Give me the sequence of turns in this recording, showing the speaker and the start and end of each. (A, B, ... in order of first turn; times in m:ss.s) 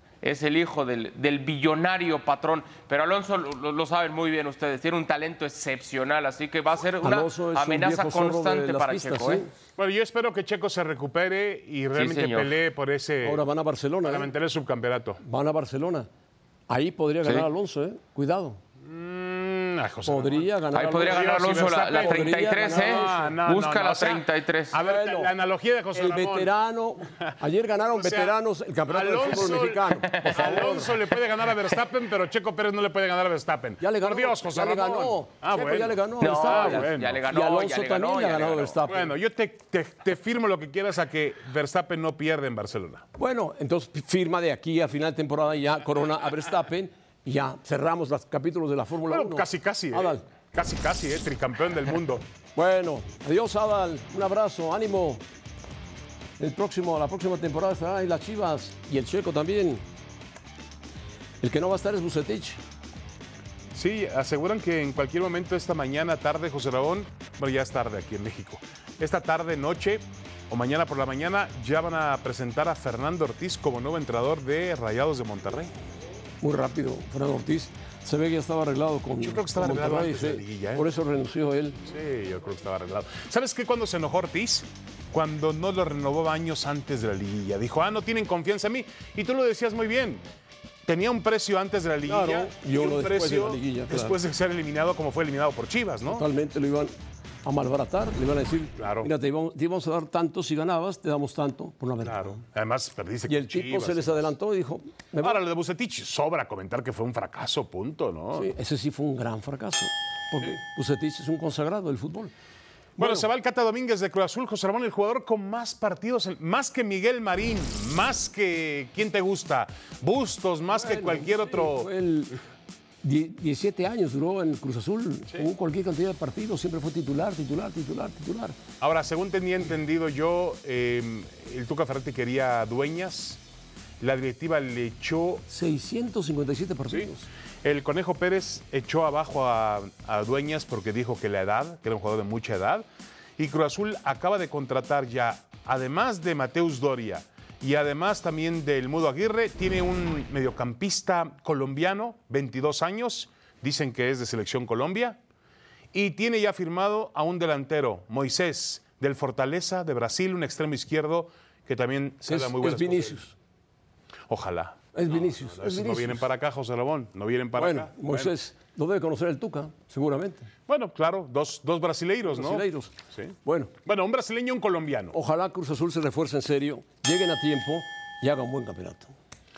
0:00.2-0:09.4 A
0:07.0-0:09.5 B
0:09.8-0:13.4 C
0:11.9-0:12.5 A
0:13.2-0:14.3 B
0:14.0-0:15.2 C
0:15.2-0:16.1 B
0:16.7-0:18.6 B
0:18.8-0:26.5 C
0:20.1-0:23.4 B
0:20.7-0:24.8 A
0:24.8-0:25.3 B
0:25.9-0:30.9 B
0:27.9-0:28.3 C
0:28.9-0:37.2 C
0:33.8-0:39.1 B
0:36.2-0:38.8 A
0:38.9-0:43.0 C
0:43.2-0:50.2 B
0:49.1-0:52.2 C
0:52.6-0:55.2 B
0:56.4-0:59.8 B
1:01.4-1:02.6 B
1:03.7-1:15.7 C
1:16.4-1:21.8 B
1:19.2-1:20.9 C
1:21.8-1:30.2 C
1:30.9-1:36.3 C
1:32.1-1:34.2 B
1:36.1-1:42.4 B
1:38.8-1:39.1 C
1:42.0-1:44.3 C
1:43.3-1:45.4 B
1:45.2-1:48.5 C
1:48.3-1:52.3 B
1:53.0-2:01.9 C
1:53.0-1:53.2 B
2:00.7-2:02.4 B
2:03.0-2:08.6 B
2:08.8-2:13.4 C
2:14.0-2:15.4 C
2:15.5-2:17.3 B
2:17.6-2:35.2 C
2:35.9-2:43.2 C
2:42.2-2:43.3 B
2:44.3-2:48.3 C
2:44.9-2:46.2 B
2:47.6-2:50.5 B
2:50.7-2:55.2 C
2:52.3-2:53.7 B
2:55.1-2:59.1 B